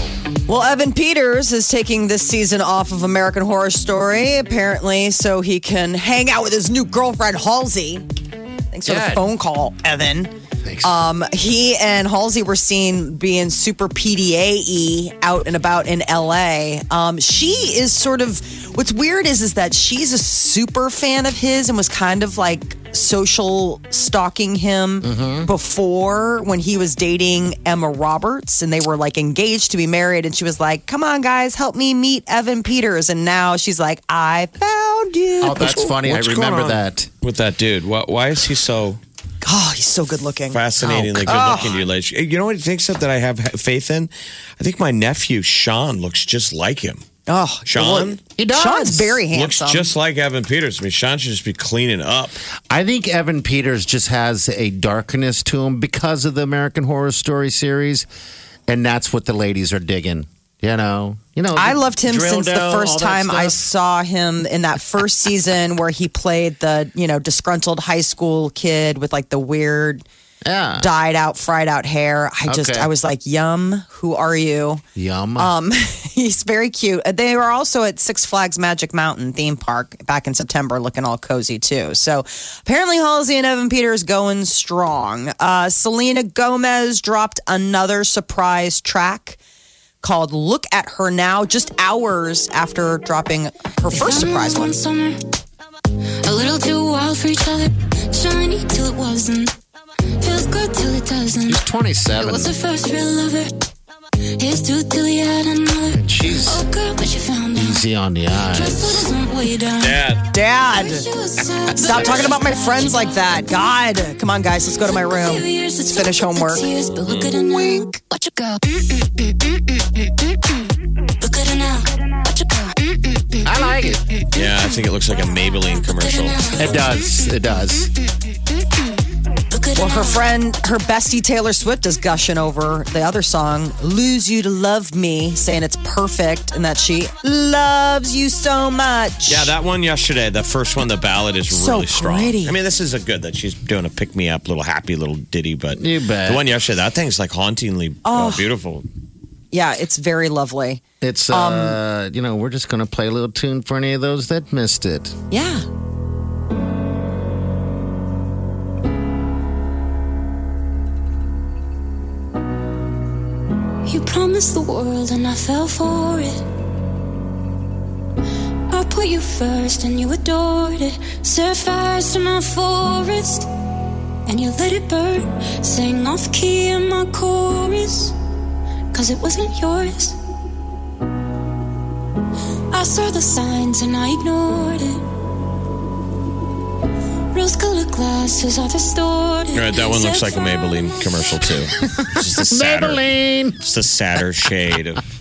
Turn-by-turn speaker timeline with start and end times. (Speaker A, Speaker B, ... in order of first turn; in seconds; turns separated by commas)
Speaker A: 0.5-8.1, Speaker A: 8.7-35.9, Speaker B: 8.8-9.3, Speaker B: 10.6-11.0, Speaker B: 25.0-25.5, Speaker B: 35.4-37.1, Speaker C: 35.6-39.0, Speaker A: 39.4-40.6, Speaker C: 40.5-47.0, Speaker B: 40.8-41.6, Speaker A: 41.2-41.8, Speaker A: 47.3-49.9, Speaker C: 47.7-48.2, Speaker B: 48.4-49.2, Speaker C: 49.3-52.4, Speaker B: 52.7-58.1, Speaker B: 58.7-63.6, Speaker A: 61.5-70.0, Speaker B: 70.4-70.9, Speaker A: 70.8-74.8, Speaker B: 72.5-72.9, Speaker B: 75.0-75.5, Speaker A: 75.4-89.4, Speaker A: 90.0-94.7, Speaker D: 93.9-95.2, Speaker D: 96.2-99.5, Speaker D: 100.2-101.6, Speaker B: 101.5-102.5, Speaker D: 102.1-103.5, Speaker D: 104.4-107.8, Speaker B: 106.0-106.7, Speaker B: 107.5-109.1, Speaker D: 108.4-113.0, Speaker C: 109.8-110.3, Speaker A: 110.3-111.1, Speaker A: 111.8-116.7, Speaker D: 114.9-120.1, Speaker A: 117.5-117.9, Speaker D: 121.2-123.5, Speaker B: 123.5-124.0, Speaker C: 124.3-126.5, Speaker D: 125.9-126.9, Speaker B: 126.5-127.9, Speaker D: 129.5-130.2, Speaker A: 129.8-139.6, Speaker C: 139.3-148.9, Speaker A: 141.5-142.6, Speaker B: 145.8-146.4, Speaker A: 148.1-148.5, Speaker A: 149.5-151.8, Speaker B: 151.0-155.2, Speaker A: 155.3-155.6, Speaker D: 163.8-166.4, Speaker D: 168.7-173.5, Speaker D: 174.3-178.2, Speaker D: 178.9-180.2, Speaker D: 182.7-185.0, Speaker D: 187.3-191.1, Speaker C: 189.5-193.1, Speaker B: 191.8-193.6, Speaker C: 193.6-195.0